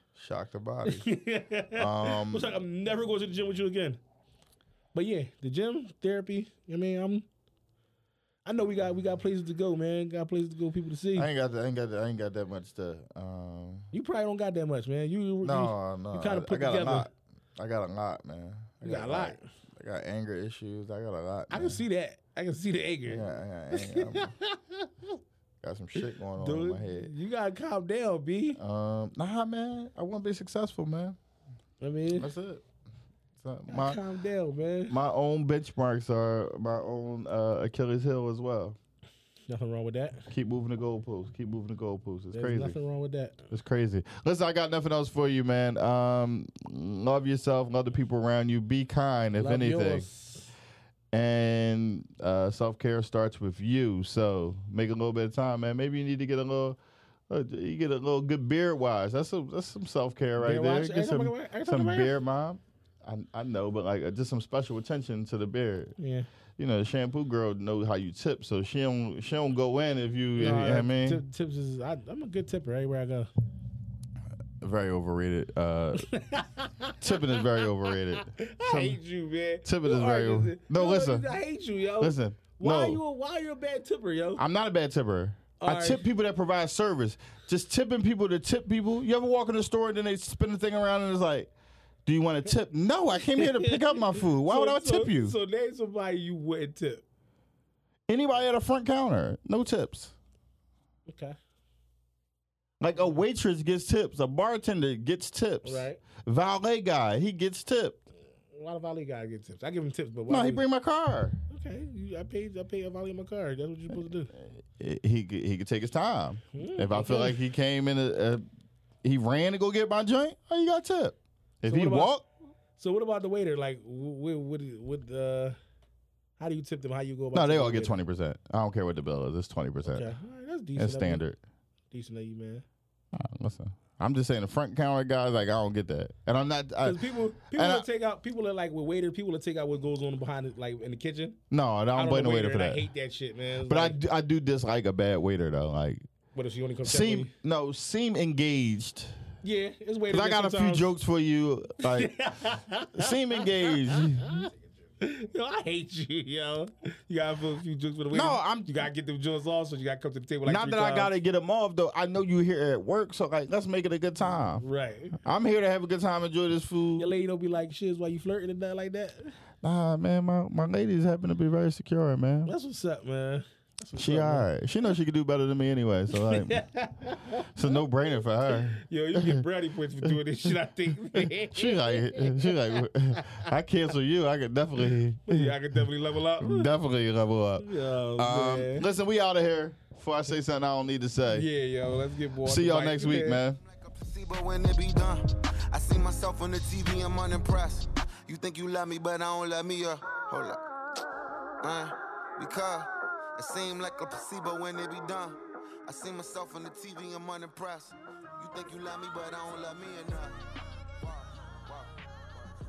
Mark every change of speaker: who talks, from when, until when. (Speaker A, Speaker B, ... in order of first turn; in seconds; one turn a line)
Speaker A: 0.1-1.1
Speaker B: 0.8-4.0
Speaker A: 1.7-2.5
Speaker B: 4.9-7.3
Speaker B: 8.4-11.3
Speaker A: 11.2-13.9
Speaker B: 13.9-17.1
Speaker A: 15.4-21.8
Speaker B: 18.8-19.5
Speaker B: 21.5-25.1
Speaker A: 23.1-24.3
Speaker A: 25.6-27.1
Speaker B: 26.4-28.6
Speaker A: 28.6-31.2
Speaker B: 31.8-32.3
Speaker A: 32.1-32.6
Speaker A: 33.4-34.0
Speaker B: 33.7-35.0
Speaker A: 34.9-38.8
Speaker B: 39.5-40.3
Speaker A: 40.3-42.8
Speaker B: 42.3-43.4
Speaker A: 43.5-50.1
Speaker B: 49.4-50.5
Speaker A: 51.1-56.8
Speaker A: 57.3-66.0
Speaker B: 60.4-62.1
Speaker B: 66.0-66.3
Speaker A: 66.6-71.2
Speaker B: 70.4-73.3
Speaker A: 74.6-76.0
Speaker B: 76.0-84.4
Speaker A: 77.0-79.0
Speaker A: 79.6-81.3
Speaker A: 82.0-83.0
Speaker A: 84.4-91.5
Speaker B: 85.6-86.0
Speaker A: 92.0-95.3
Speaker B: 93.3-97.0
Speaker A: 98.1-100.1
Speaker B: 101.1-101.4
Speaker A: 102.8-108.0
Speaker B: 105.6-106.0
Speaker B: 108.5-110.6
Speaker A: 110.3-111.4
Speaker B: 111.5-114.3
Speaker A: 114.3-118.4
Speaker B: 116.5-117.4
Speaker A: 119.0-122.2
Speaker B: 121.6-122.1
Speaker B: 122.8-125.6
Speaker B: 126.4-128.0
Speaker A: 127.3-130.1
Speaker B: 129.8-131.2
Speaker A: 130.8-131.4
Speaker B: 131.9-132.6
Speaker A: 133.1-137.9
Speaker B: 136.8-141.4
Speaker A: 141.5-142.8
Speaker B: 141.9-144.0
Speaker A: 143.6-146.0
Speaker B: 146.3-147.3
Speaker A: 146.8-149.2
Speaker B: 149.4-150.9
Speaker A: 150.1-152.1
Speaker B: 151.8-161.1
Speaker A: 152.9-154.4
Speaker A: 158.1-158.8
Speaker A: 160.4-164.6
Speaker B: 164.6-165.2
Speaker A: 165.2-167.1
Speaker B: 167.0-169.4
Speaker A: 169.6-172.5
Speaker B: 172.4-174.5
Speaker A: 173.9-176.6
Speaker B: 176.1-177.8
Speaker A: 177.5-179.4
Speaker B: 178.5-183.4
Speaker A: 181.1-185.6
Speaker B: 185.3-186.7
Speaker A: 186.4-191.5
Speaker B: 187.6-188.9
Speaker B: 191.3-193.4
Speaker A: 192.4-193.6
Speaker C: 193.6-200.6
Speaker C: 201.6-210.4
Speaker C: 211.0-212.0